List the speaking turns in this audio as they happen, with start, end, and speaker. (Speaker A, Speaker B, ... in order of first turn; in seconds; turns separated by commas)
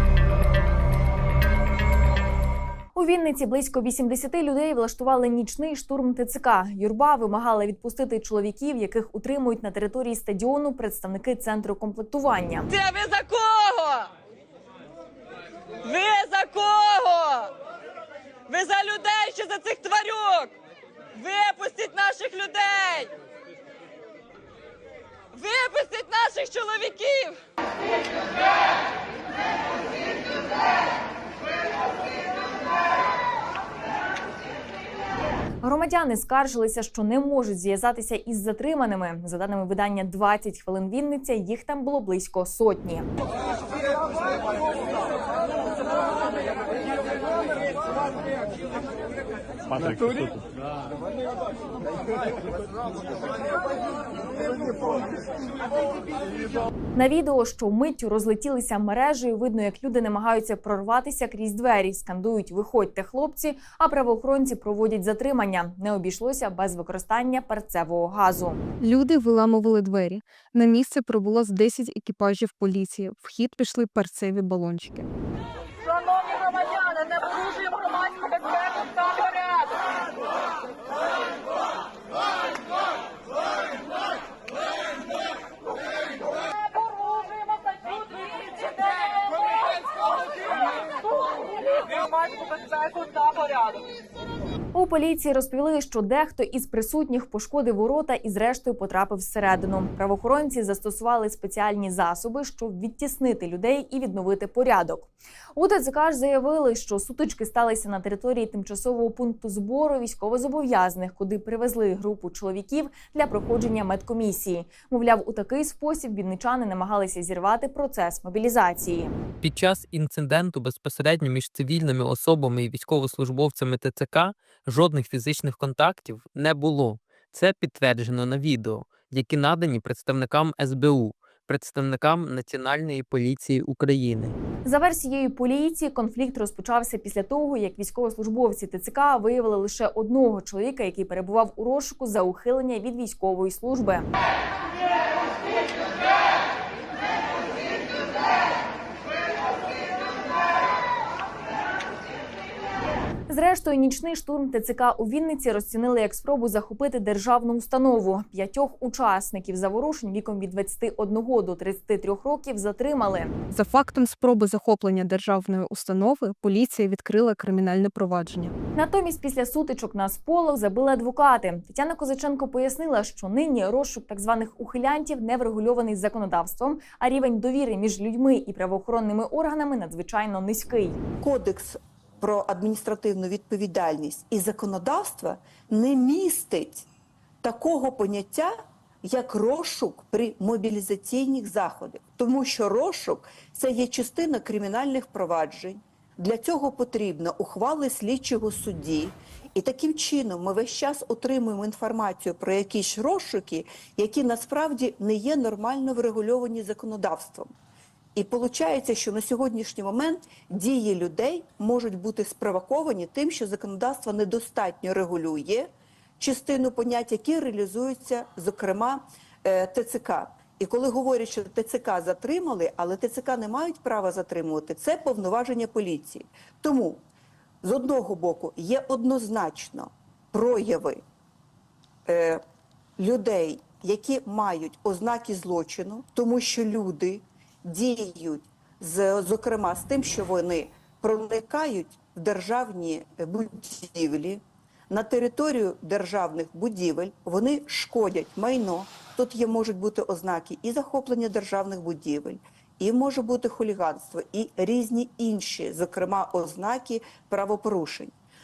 Speaker A: 3.0-12.7, Speaker B: 12.7-14.1, Speaker B: 15.8-17.5, Speaker B: 18.5-20.5, Speaker B: 21.1-23.1, Speaker B: 25.3-27.4, Speaker A: 35.6-43.1, Speaker A: 57.0-68.6, Speaker C: 68.8-75.1, Speaker A: 94.7-119.1, Speaker D: 119.4-134.4, Speaker A: 134.7-144.1, Speaker A: 153.3-163.3, Speaker C: 163.5-168.6, Speaker A: 168.8-181.0, Speaker E: 181.2-186.8, Speaker E: 187.4-188.5, Speaker E: 189.1-207.5, Speaker E: 208.2-227.0, Speaker E: 227.6-231.0, Speaker E: 232.1-232.4, Speaker E: 233.0-258.1